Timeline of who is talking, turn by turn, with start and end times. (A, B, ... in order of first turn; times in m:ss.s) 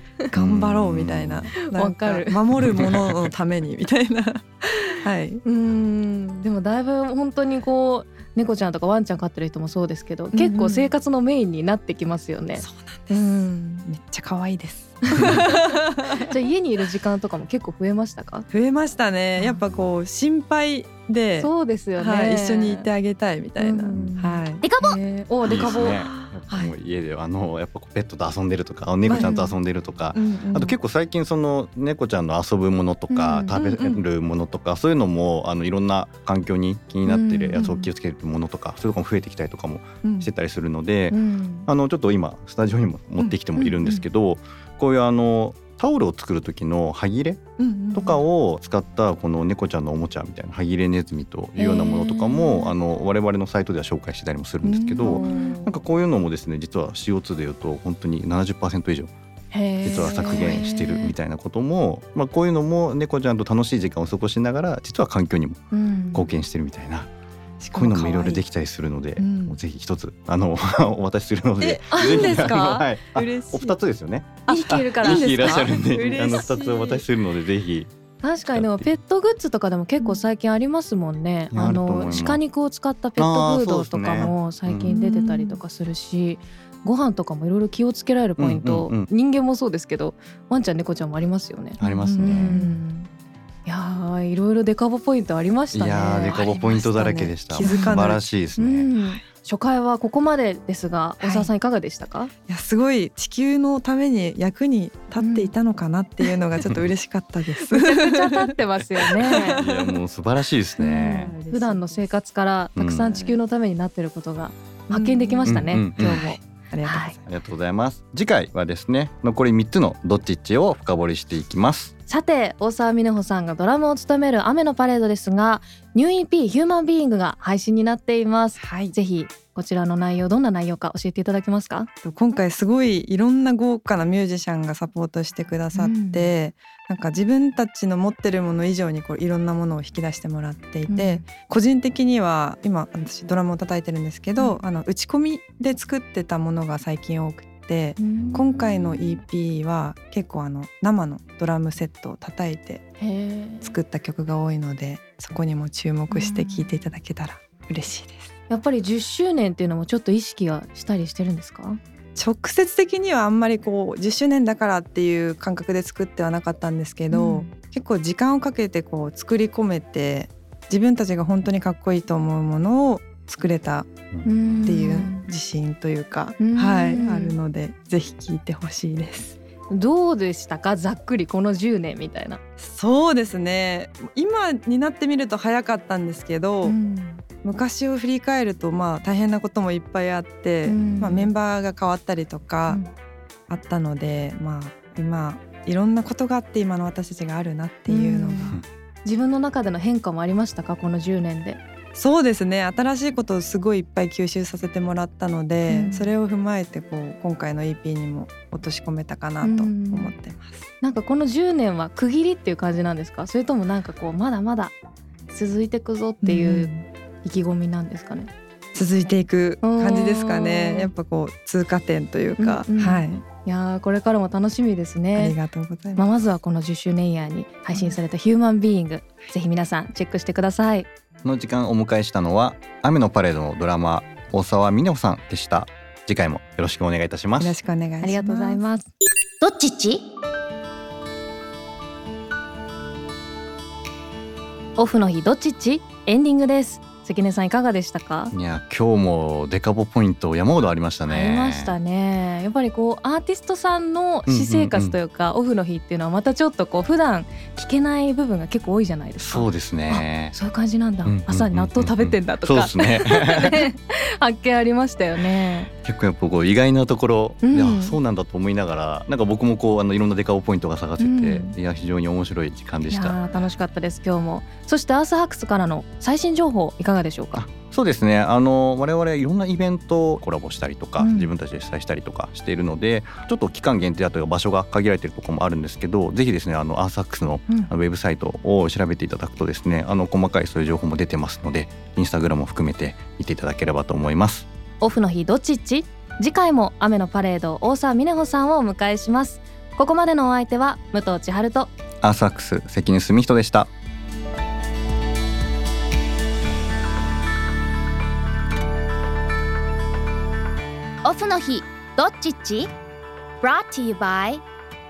0:00.3-0:05.4 A
0:00.4-0:01.5 B
0:01.6-0:02.4 C
0:02.6-0:03.1 B
0:05.4-0:13.5 C
0:10.4-0:10.9 A
0:12.6-0:16.3 A
0:15.1-0:18.5 C
0:18.5-0:24.6 A
0:21.4-0:22.9 C
0:23.6-0:26.0 C
0:24.6-0:25.0 D
0:25.4-0:47.4 B
0:25.6-0:26.7 A
0:29.1-0:29.4 A
0:29.1-0:29.6 C
0:30.1-0:30.8 A
0:33.1-0:33.6 C
0:33.5-0:34.0 A
0:37.0-0:37.9 C
0:40.0-0:40.3 A
0:41.1-0:41.7 C
0:43.6-0:44.0 C
0:47.6-0:48.2 A
0:48.0-0:59.1 B
0:51.6-0:52.7 C
0:54.6-0:55.8 A
0:55.0-0:55.6 C
0:59.5-1:01.2 C
0:59.8-1:07.1 B
1:05.7-1:06.3 C
1:07.6-1:08.4 A
1:07.7-1:17.9 B
1:09.2-1:09.6 A
1:11.6-1:13.8 A
1:11.9-1:12.9 C
1:14.5-1:15.7 C
1:14.5-1:17.0 A
1:18.2-1:33.1 C
1:18.5-1:18.9 B
1:21.5-1:22.4 B
1:23.2-1:25.0 B
1:24.9-1:25.6 A
1:28.4-1:29.1 B
1:31.8-1:32.6 B
1:31.8-1:32.8 A
1:33.6-1:36.5 C
1:35.7-1:38.9 B
1:36.3-1:38.2 A
1:37.6-1:42.3 C
1:41.2-1:41.5 A
1:42.5-1:50.0 A
1:45.2-1:45.5 C
1:47.7-1:49.6 C
1:49.3-1:51.3 B
1:50.8-1:57.2 C
1:51.1-1:52.2 A
1:52.8-1:53.1 B
1:53.0-1:53.4 A
1:54.9-1:57.3 A
1:55.5-1:56.2 B
1:57.3-2:01.9 B
2:02.1-2:11.9 C
2:08.6-2:09.0 A
2:12.0-2:32.8 A
2:15.8-2:16.3 C
2:20.9-2:21.2 C
2:28.0-2:29.2 C
2:33.0-2:33.8 C
2:33.6-2:38.3 A
2:36.1-2:36.8 C
2:38.5-2:41.8 C
2:42.2-2:53.9 A
2:47.1-2:47.5 C
2:54.1-2:54.6 B
2:54.2-2:55.3 C
2:54.6-2:59.4 A
2:56.4-2:57.4 C
2:59.7-3:02.4 C
3:02.6-3:06.8 A
3:06.6-3:07.2 C
3:07.4-3:12.8 A
3:10.7-3:11.3 C
3:13.5-3:18.6 A
3:17.9-3:21.6 C
3:21.9-3:30.7 A
3:25.7-3:26.1 C
3:29.4-3:30.1 C
3:30.8-3:34.8 C
3:35.3-3:38.3 C
3:36.2-3:36.8 A
3:38.7-3:43.2 A
3:39.6-3:40.9 C
3:42.4-3:45.4 C
3:45.2-3:46.0 A
3:46.0-3:50.9 C
3:51.2-3:57.6 B
3:57.4-3:58.6 A
3:58.0-3:58.8 C
3:59.4-4:00.0 D
4:04.8-4:08.3 C
4:08.3-4:11.8 B
4:11.1-4:25.7 C
4:14.3-4:15.0 B
4:19.2-4:20.4 B
4:21.0-4:23.7 B
4:25.8-4:33.2 B
4:27.4-4:28.0 C
4:31.0-4:31.6 C
4:32.9-4:37.4 C
4:37.4-4:54.5 B
4:41.0-4:41.3 C
4:54.8-5:01.7 C
5:02.0-5:03.7 B
5:11.0-5:12.7 D
5:13.4-5:14.4 D